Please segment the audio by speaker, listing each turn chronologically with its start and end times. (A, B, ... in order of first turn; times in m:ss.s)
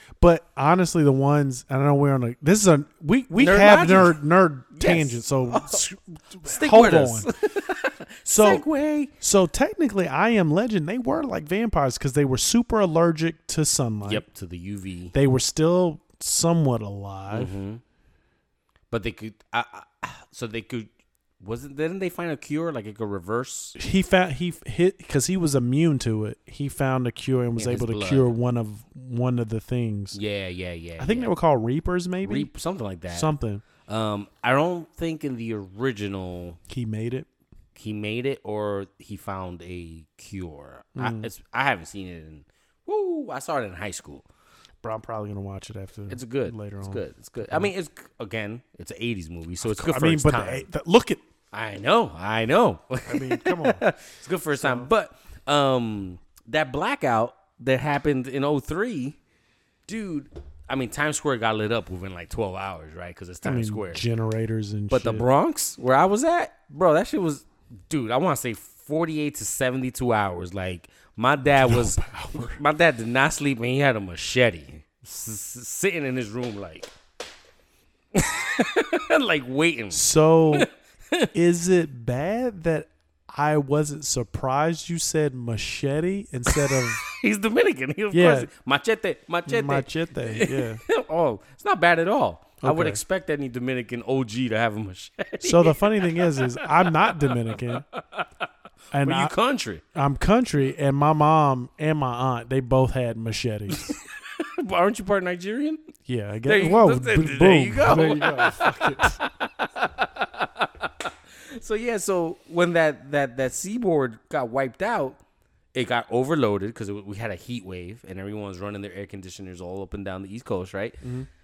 0:00.2-0:07.3 A
0:03.4-0:04.2 B
0:04.7-0:05.8 B
0:06.4-0:09.1 B
0:08.3-0:08.6 A
0:09.2-0:14.2 A
0:14.0-0:15.1 B
0:15.1-0:17.5 A
0:17.3-0:17.8 B
0:18.9-0:23.8 B
0:23.8-0:30.2 A
0:27.6-0:28.3 B
0:30.1-0:31.3 B
0:31.0-0:32.5 A
0:32.2-0:33.3 B
0:33.1-0:33.6 A
0:33.8-0:36.6 B
0:36.7-0:37.3 A
0:37.8-0:44.2 B
0:41.0-0:41.3 A
0:44.8-0:47.7 A
0:46.1-0:50.7 B
0:49.6-0:51.2 A
0:51.5-0:59.2 B
0:53.0-0:53.8 A
0:54.6-0:54.9 A
0:59.9-1:04.0 B
1:03.4-1:05.3 A
1:04.9-1:16.9 B
1:11.5-1:12.6 A
1:18.1-1:21.3 B
1:19.9-1:20.7 A
1:21.3-1:27.0 A
1:26.5-1:38.3 B
1:28.1-1:28.5 A
1:29.5-1:30.8 A
1:32.6-1:33.0 A
1:35.4-1:37.8 A
1:38.9-1:39.3 A
1:39.0-1:39.8 B
1:39.9-1:43.9 A
1:43.7-1:45.8 B
1:46.0-1:49.2 A
1:46.4-1:55.2 B
1:55.7-2:01.0 B
2:01.0-2:01.3 A